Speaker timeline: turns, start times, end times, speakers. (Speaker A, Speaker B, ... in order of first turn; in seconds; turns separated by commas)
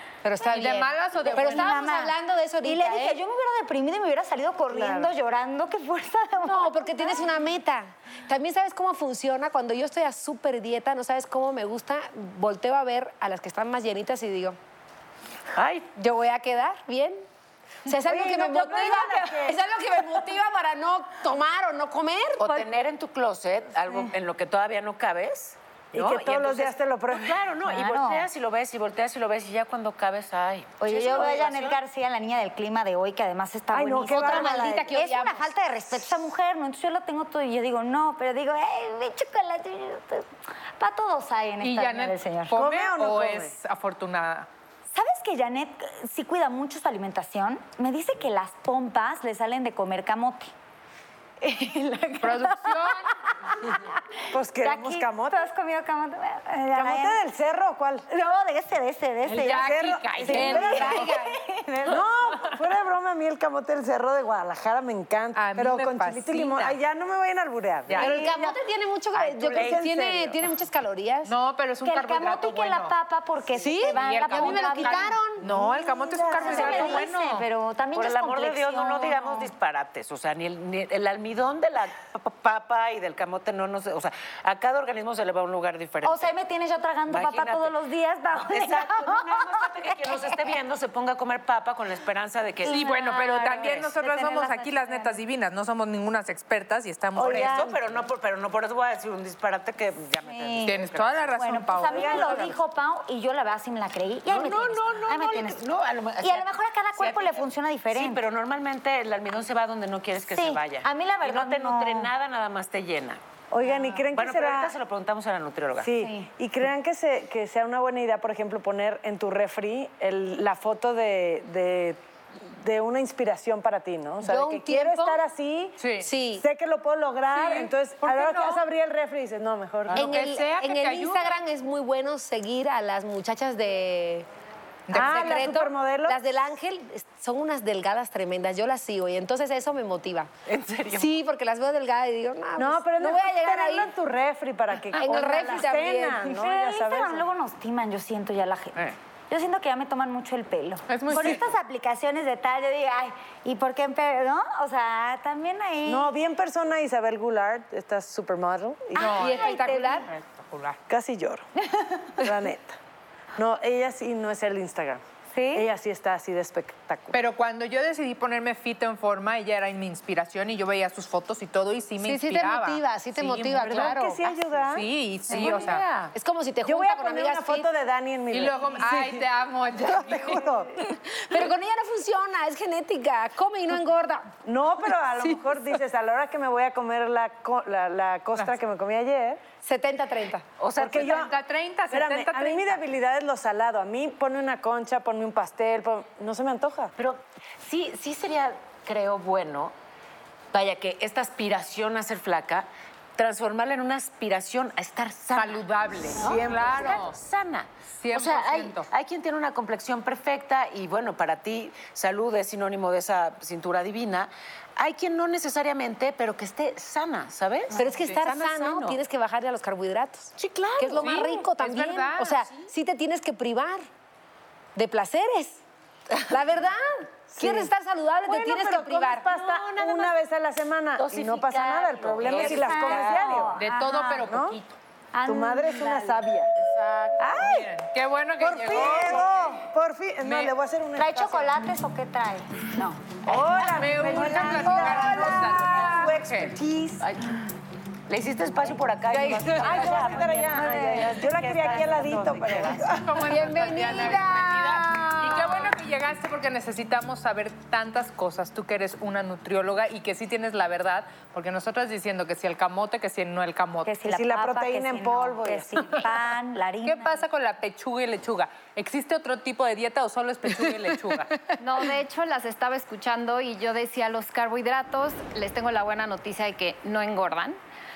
Speaker A: 0.2-3.2, Speaker B: 0.4-1.9, Speaker C: 1.2-7.3, Speaker D: 4.7-5.1, Speaker A: 6.4-14.6, Speaker E: 15.6-15.9, Speaker A: 15.9-17.2, Speaker A: 17.9-22.6, Speaker D: 17.9-19.6, Speaker E: 22.4-31.8, Speaker D: 25.9-27.5, Speaker C: 27.6-28.3, Speaker C: 30.8-42.5, Speaker D: 33.7-34.9, Speaker A: 34.1-35.5, Speaker B: 41.6-44.5, Speaker D: 42.5-43.5, Speaker C: 44.9-50.5, Speaker C: 51.4-54.0, Speaker B: 52.2-53.1, Speaker D: 54.3-55.5, Speaker C: 54.6-57.2, Speaker D: 56.7-58.1, Speaker C: 58.1-62.0, Speaker B: 59.2-61.3, Speaker D: 59.4-61.1, Speaker D: 61.9-68.5, Speaker B: 65.3-66.8, Speaker A: 68.0-71.3, Speaker D: 69.2-70.4, Speaker B: 71.3-72.9, Speaker C: 71.8-75.2, Speaker A: 73.6-75.5, Speaker B: 73.8-77.5, Speaker C: 75.7-79.5, Speaker D: 76.0-76.6, Speaker E: 76.4-77.1, Speaker A: 76.7-77.0, Speaker E: 77.9-86.4, Speaker C: 86.0-90.4, Speaker E: 87.1-87.8, Speaker E: 88.3-92.9, Speaker C: 92.6-95.2, Speaker B: 92.6-97.7, Speaker E: 93.5-93.9, Speaker E: 97.1-102.6, Speaker C: 97.3-97.8, Speaker C: 100.2-100.8, Speaker B: 100.6-102.5, Speaker C: 101.3-105.6, Speaker D: 101.8-102.5, Speaker E: 104.3-113.2, Speaker C: 106.2-108.2, Speaker C: 110.3-112.1, Speaker D: 113.5-114.8, Speaker C: 113.7-114.0, Speaker E: 114.1-116.0, Speaker D: 115.8-130.1, Speaker C: 116.0-116.3, Speaker A: 124.2-125.2, Speaker B: 125.8-126.1, Speaker A: 126.0-126.4, Speaker B: 127.3-128.6, Speaker B: 129.9-131.3, Speaker A: 129.9-134.3, Speaker B: 134.9-135.3, Speaker D: 134.9-136.2, Speaker A: 134.9-140.3, Speaker E: 140.5-141.1, Speaker A: 140.9-143.9, Speaker D: 142.6-147.3, Speaker A: 145.0-146.4, Speaker C: 146.3-156.1, Speaker B: 150.9-151.4, Speaker D: 155.8-159.4, Speaker B: 159.0-160.8, Speaker C: 159.0-160.0, Speaker A: 159.2-160.1, Speaker D: 160.9-161.5, Speaker C: 161.7-162.1, Speaker D: 162.2-162.8, Speaker D: 163.4-165.0, Speaker C: 165.4-165.6, Speaker D: 165.5-167.2, Speaker B: 167.1-174.0, Speaker A: 172.0-174.2, Speaker D: 173.6-175.4, Speaker B: 174.7-175.8, Speaker E: 175.3-176.1, Speaker A: 176.1-177.7, Speaker D: 176.6-180.7, Speaker B: 178.3-180.5, Speaker A: 181.1-184.3, Speaker D: 184.4-189.4, Speaker A: 189.6-190.4, Speaker E: 190.6-191.3, Speaker D: 190.8-191.4, Speaker B: 190.8-192.8, Speaker D: 191.9-196.9, Speaker E: 197.0-199.8, Speaker E: 200.5-219.0, Speaker B: 205.3-207.2, Speaker D: 206.2-206.9, Speaker B: 208.0-208.9, Speaker A: 217.7-223.9, Speaker E: 220.4-221.3, Speaker B: 221.0-222.5, Speaker A: 224.8-225.6, Speaker A: 226.3-229.3, Speaker D: 227.3-227.7, Speaker D: 228.2-233.6, Speaker E: 229.3-230.2, Speaker E: 231.0-233.5, Speaker C: 232.3-234.3, Speaker B: 233.6-234.8, Speaker D: 234.2-234.6, Speaker C: 235.1-236.2, Speaker D: 235.3-236.5, Speaker D: 237.2-237.7, Speaker B: 237.4-239.6, Speaker D: 238.4-241.7, Speaker B: 240.2-240.5, Speaker C: 241.0-243.2, Speaker D: 243.2-247.1, Speaker B: 243.6-246.6, Speaker C: 244.0-244.9, Speaker E: 245.0-245.3, Speaker E: 247.0-247.4, Speaker E: 248.1-252.9, Speaker B: 249.1-249.9, Speaker D: 249.5-253.2, Speaker C: 250.5-251.1, Speaker B: 252.8-263.9, Speaker A: 253.3-255.7, Speaker C: 263.9-267.2, Speaker D: 264.1-266.1, Speaker B: 266.8-271.4, Speaker F: 271.6-277.6